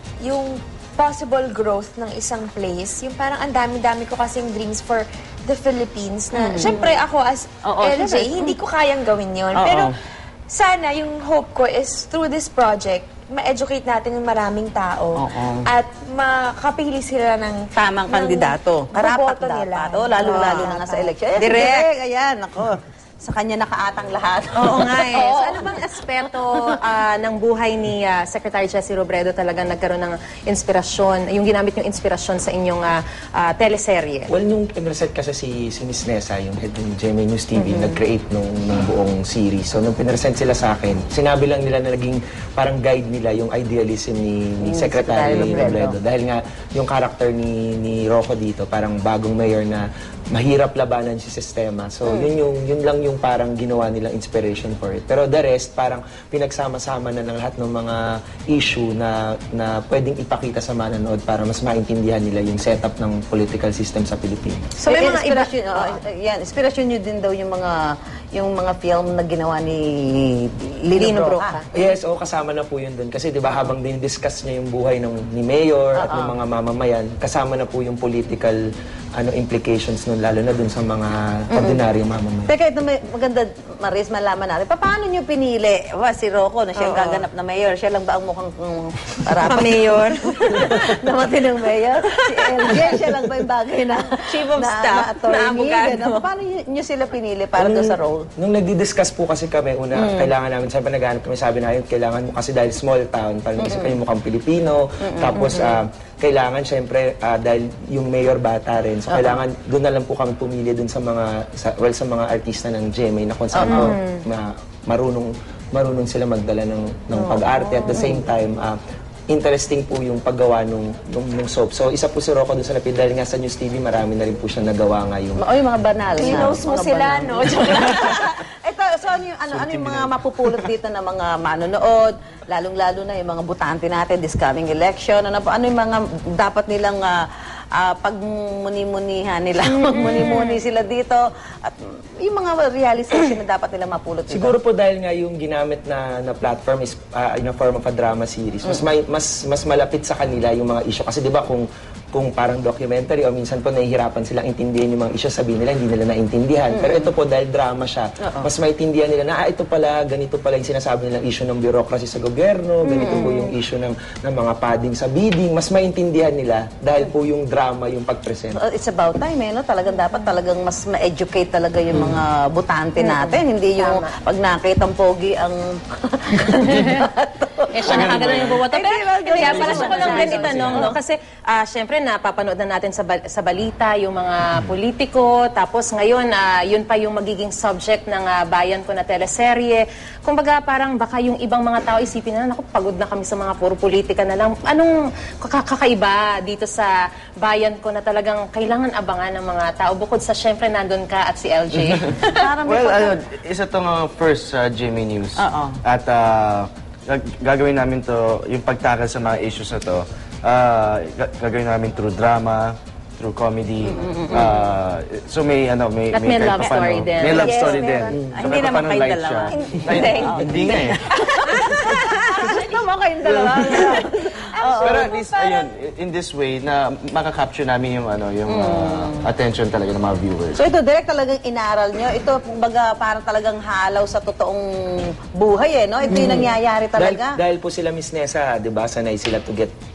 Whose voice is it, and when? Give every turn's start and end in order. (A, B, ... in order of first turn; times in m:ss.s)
0:00.2-0:09.9 A
0:06.3-0:07.0 B
0:07.7-0:08.5 B
0:09.5-0:09.9 B
0:10.5-0:21.8 A
0:15.2-0:15.7 B
0:17.8-0:25.2 B
0:20.3-0:20.6 C
0:21.4-0:21.8 C
0:24.6-0:34.3 C
0:34.3-1:04.7 D
0:37.6-0:38.0 C
0:44.6-0:46.0 B
1:04.8-1:05.9 C
1:04.8-1:11.6 B
1:10.9-1:11.6 C
1:11.7-1:18.6 D
1:16.0-1:16.4 B
1:19.2-1:22.5 D
1:21.5-1:21.8 B
1:22.5-1:38.3 B
1:26.8-1:27.3 C
1:29.3-1:30.9 C
1:32.1-1:33.2 C
1:34.1-1:36.3 C
1:37.6-1:58.8 D
1:43.6-1:44.0 B
1:45.0-1:45.8 B
1:49.1-1:49.4 B
1:53.5-1:53.9 B
1:53.6-1:54.2 C
1:57.1-1:58.2 B
1:57.6-1:58.0 C
1:59.3-2:05.4 D
2:05.4-2:24.5 B
2:06.2-2:08.2 A
2:19.7-2:20.6 C
2:24.3-2:48.6 D
2:36.7-2:37.1 B
2:38.2-2:38.5 B
2:42.8-2:43.5 C
2:43.0-2:43.3 B
2:48.5-3:01.0 B
2:53.0-2:54.1 C
2:57.7-3:16.9 C
2:57.9-2:58.7 E
2:59.3-3:00.5 A
3:00.5-3:00.9 E
3:17.4-3:22.4 C
3:22.3-3:23.2 B
3:22.7-3:41.1 E
3:25.4-3:25.8 B
3:33.8-3:34.6 B
3:36.1-3:37.5 C
3:37.2-3:38.7 A
3:37.5-3:37.8 B
3:38.3-3:45.1 B
3:39.5-3:40.5 A
3:40.0-3:40.9 C
3:41.4-3:42.7 C
3:43.3-3:43.8 E
3:43.4-3:45.7 A
3:44.7-3:50.6 E
3:48.5-3:49.3 B
3:50.5-3:57.4 B
3:56.1-3:56.4 C
3:56.2-3:59.7 D